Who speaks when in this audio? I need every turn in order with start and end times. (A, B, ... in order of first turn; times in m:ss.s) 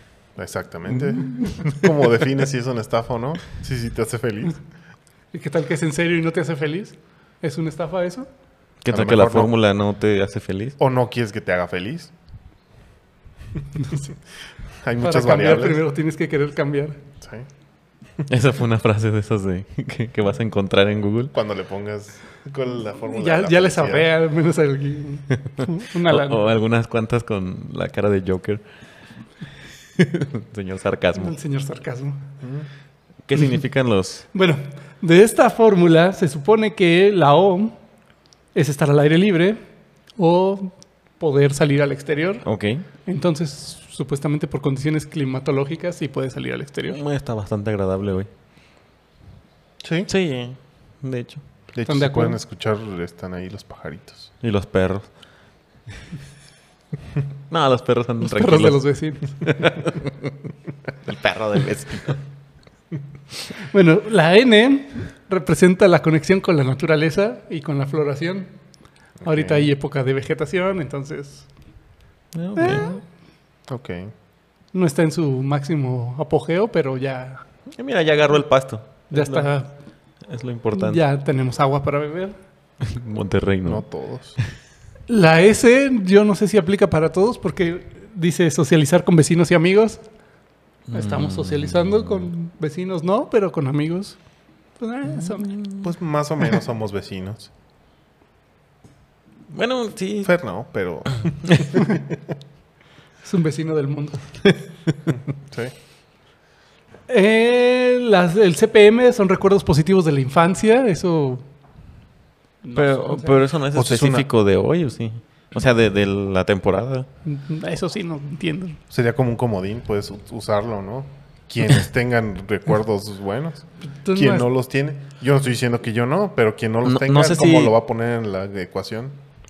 0:00.4-0:04.6 A
0:05.3-0:08.3 B
0:08.8-0:10.8 C
0:08.9-0:09.5 A
0:10.8-0:12.1 A
0:14.8-0:15.8 A
0:15.0-0:17.0 B
0:17.2-0:17.5 A
0:18.3-0:21.3 C
0:21.3-0:24.1 A
0:23.1-0:26.5 B
0:25.6-0:28.6 C
0:30.0-0:31.4 C
0:31.1-0:32.2 B
0:32.4-0:32.7 A
0:33.2-0:34.2 C
0:34.3-0:37.7 B
0:38.5-0:39.6 B
0:40.2-0:42.4 B
0:42.4-0:42.8 C
0:43.0-0:47.0 B
0:46.9-0:48.3 C
0:49.8-0:50.1 A
0:50.1-0:51.4 C
0:51.7-0:54.3 A
0:51.9-0:52.4 B
0:54.4-0:55.1 C
0:57.5-0:58.8 C
0:58.2-0:59.8 B
0:59.4-1:00.3 C
1:01.0-1:02.2 C
1:03.7-1:08.5 B
1:09.2-1:09.7 A
1:09.2-1:11.5 B
1:12.3-1:12.9 C
1:12.6-1:13.0 B
1:13.7-1:14.1 A
1:14.7-1:17.4 B
1:17.8-1:19.5 C
1:19.1-1:19.7 B
1:20.3-1:21.0 C
1:20.7-1:22.3 B
1:22.8-1:23.8 C
1:23.6-1:24.4 A
1:25.1-1:30.0 B
1:30.9-1:32.3 C
1:30.9-1:34.2 B
1:34.8-1:35.5 B
1:35.3-1:35.9 C
1:35.8-1:37.5 A
1:39.5-1:40.3 C
1:40.2-1:42.2 A
1:43.2-1:44.2 B
1:47.1-1:51.4 B
1:52.6-1:53.4 B
1:52.7-1:57.1 C
1:53.7-1:54.3 A
1:57.2-1:58.8 B
1:58.9-2:09.2 A
2:03.8-2:04.5 B
2:06.8-2:07.7 C